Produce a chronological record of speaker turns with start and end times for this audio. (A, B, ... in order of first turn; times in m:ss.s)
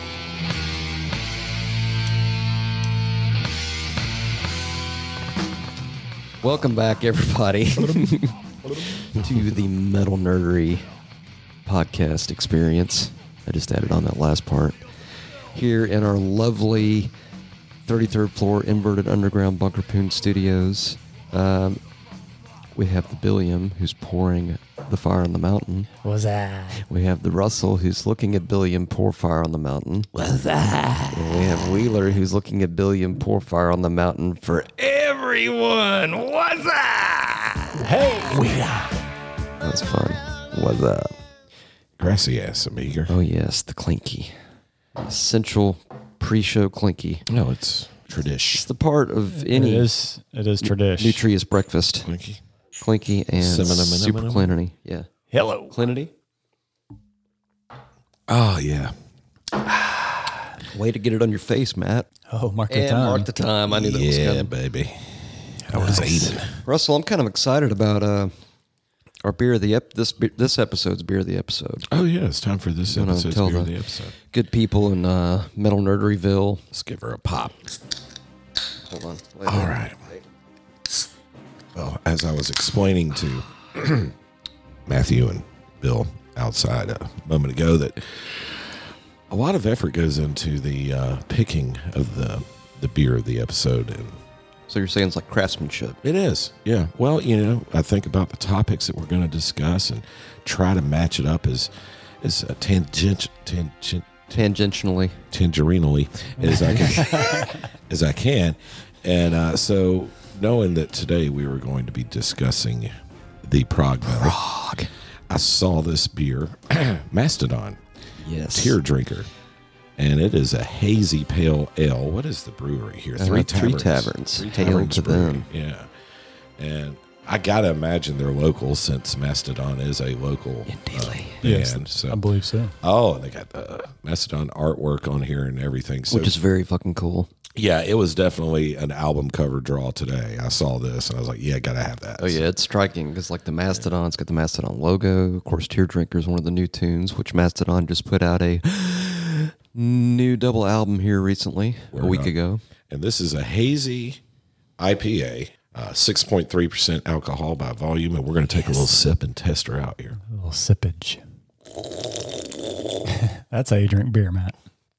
0:06.4-0:10.9 A
0:11.7-0:14.8 A
0:15.5-0:17.1 A
0:17.9-0:21.8 A
0:22.8-0:25.9 A
0:26.0-0:26.9 B
0:26.8-0:30.2 A
0:30.2-0:31.1 C
0:31.1-0:37.9 A
0:37.8-0:38.8 B
0:39.6-0:41.1 A
0:42.0-0:43.1 C
0:43.1-0:44.3 A
0:45.0-0:47.2 A
0:47.3-0:48.6 C
0:48.5-0:49.9 A
0:49.4-0:51.2 B
0:50.6-0:52.1 A
0:52.0-0:52.4 C
0:52.8-0:55.1 A
0:53.4-0:54.5 C
0:55.3-0:55.8 B
0:55.7-0:56.1 A
0:58.3-0:59.0 C
1:00.7-1:02.1 A
1:02.3-1:03.3 B
1:02.7-1:04.5 A
1:03.7-1:06.6 C
1:05.8-1:06.3 B
1:06.5-1:08.3 A
1:09.2-1:11.9 A
1:11.9-1:14.1 C
1:12.9-1:13.7 A
1:14.3-1:16.6 A
1:16.7-1:17.6 C
1:18.9-1:20.2 A
1:19.4-1:20.0 C
1:21.8-1:24.1 C
1:24.9-1:28.2 C
1:29.3-1:34.2 C
1:34.7-1:36.0 A
1:36.0-1:41.7 C
1:42.2-1:44.4 C
1:44.3-1:45.2 A
1:45.3-1:52.9 C
1:46.7-1:47.3 A
1:47.0-1:47.4 B
1:53.4-1:54.4 C
1:54.0-1:54.9 A
1:55.3-1:57.8 C
1:58.2-1:58.8 A
1:58.5-1:59.3 C
2:00.0-2:05.9 C
2:03.2-2:05.4 A
2:06.6-2:12.2 C
2:10.7-2:11.3 A
2:11.4-2:12.8 B
2:12.8-2:16.3 C
2:16.1-2:17.3 A
2:17.5-2:22.4 C
2:22.2-2:32.6 A
2:31.9-2:32.3 C
2:32.9-2:34.2 C
2:34.8-2:40.2 C
2:38.5-2:38.8 A
2:40.2-2:41.2 B
2:43.1-2:44.5 B